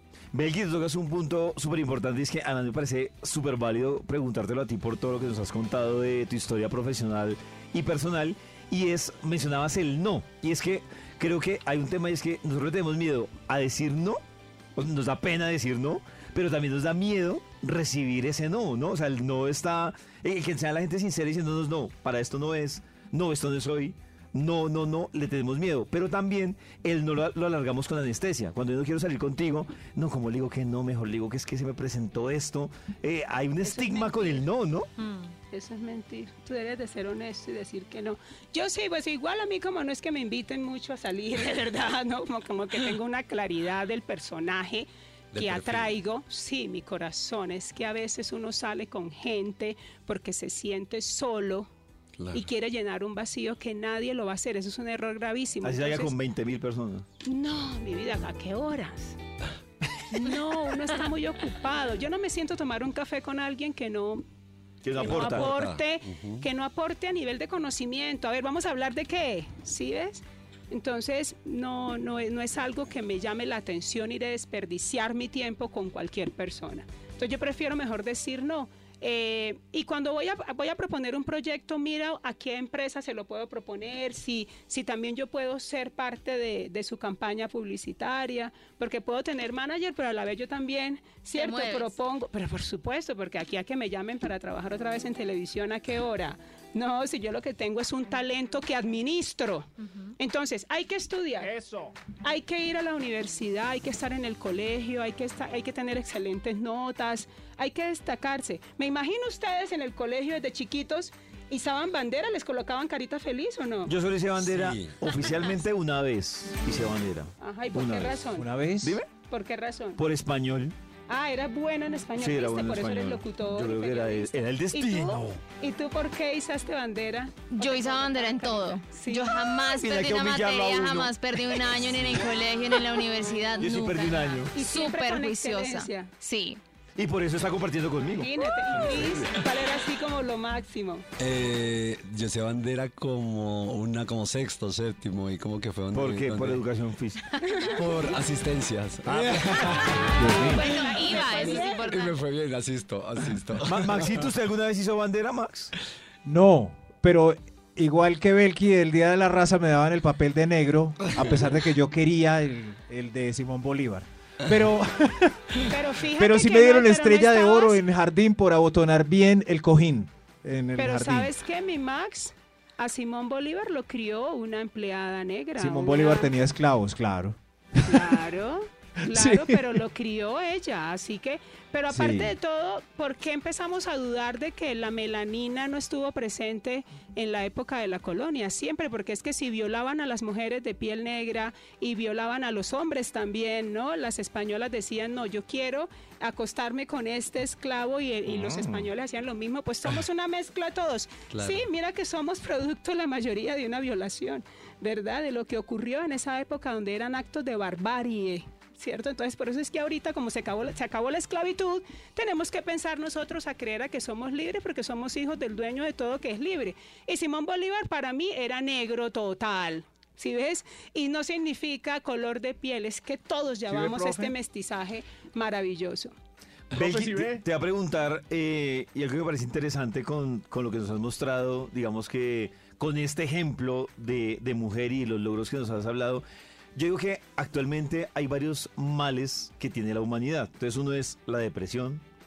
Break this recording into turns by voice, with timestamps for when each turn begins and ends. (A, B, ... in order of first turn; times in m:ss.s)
0:00.3-0:14.2 A
0:14.8-0:34.9 A
0:33.6-0:34.4 B
0:35.0-0:35.3 C
0:35.5-0:51.7 B
0:45.3-0:46.0 D
0:52.2-0:52.4 D
0:52.3-0:56.1 B
0:55.6-0:57.1 A
0:57.2-0:59.2 B
1:00.1-1:04.2 B
1:04.8-1:05.5 A
1:04.9-1:41.7 B
1:05.0-1:06.4 D
1:31.4-1:31.9 C
1:42.2-1:53.9 B
1:53.9-1:58.3 A
1:54.4-1:55.2 D
1:57.4-1:58.5 B
1:58.4-1:59.0 E
1:58.8-1:59.1 A
1:59.2-2:00.0 B
2:00.0-2:00.8 A
2:01.1-2:09.4 B
2:02.2-2:05.4 A
2:07.5-2:16.6 C
2:09.6-2:11.9 A
2:13.6-2:14.5 A
2:14.5-2:16.1 B
2:17.0-2:19.4 A
2:18.1-2:21.0 B
2:21.2-2:26.7 D
2:25.9-2:27.4 A
2:27.4-2:27.8 B
2:27.7-2:30.3 D
2:29.1-2:30.1 A
2:30.2-2:32.0 B
2:30.2-2:30.6 E
2:30.4-2:32.2 C
2:31.2-2:34.2 D
2:33.6-2:35.7 A
2:36.2-2:51.3 E
2:45.6-2:47.8 B
2:50.8-2:56.4 B
2:55.6-2:58.2 E
2:57.8-3:46.2 B
2:59.1-2:59.8 E
3:01.9-3:02.3 E
3:18.5-3:18.8 A
3:21.3-3:21.6 D
3:43.7-3:44.3 E
3:46.7-3:56.2 A
3:56.8-4:02.0 A